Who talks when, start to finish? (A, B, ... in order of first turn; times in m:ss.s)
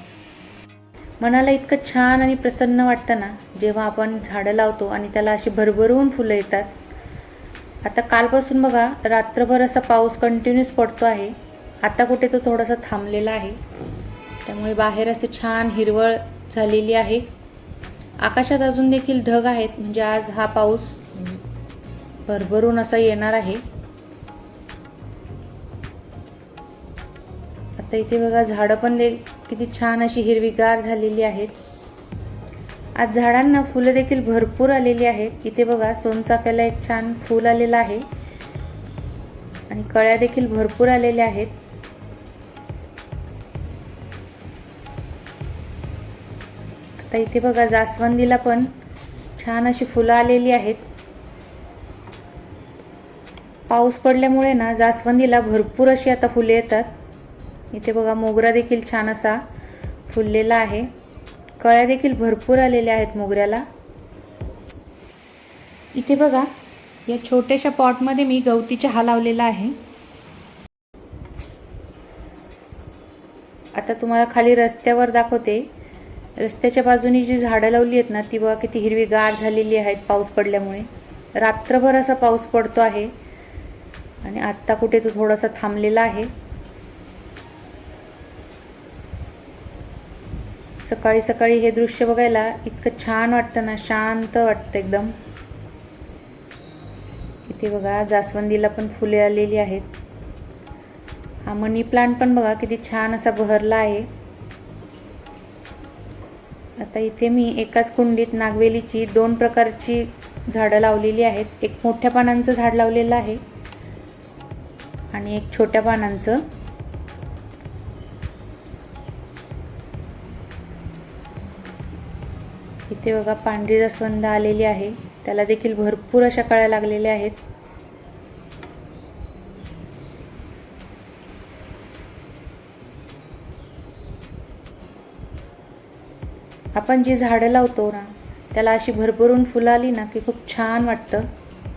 0:01.2-0:06.8 A
0:07.8-0:13.6 A
0:14.4-0:17.3 A
0:18.2-0:21.4 A
0:22.3-0:23.6 A
0:27.8-0:31.6 A
0:33.0-0:38.1 A
0:39.7-0:41.6 A
0:47.0-0:48.7 A
0:49.4-0:50.8 A
0:53.7-0:57.0 A
0:57.7-0:59.4 A
1:00.1-1:00.9 A
1:01.6-1:03.6 A
1:05.9-1:06.5 A
1:07.1-1:09.8 A
1:13.8-1:15.7 A
1:16.4-1:23.1 A
1:24.2-1:26.3 A
1:30.8-1:35.2 A
1:37.5-1:39.9 A
1:41.4-1:44.1 A
1:46.8-1:53.4 A
1:55.1-1:56.5 A
2:02.9-2:07.4 A
2:16.8-2:21.3 A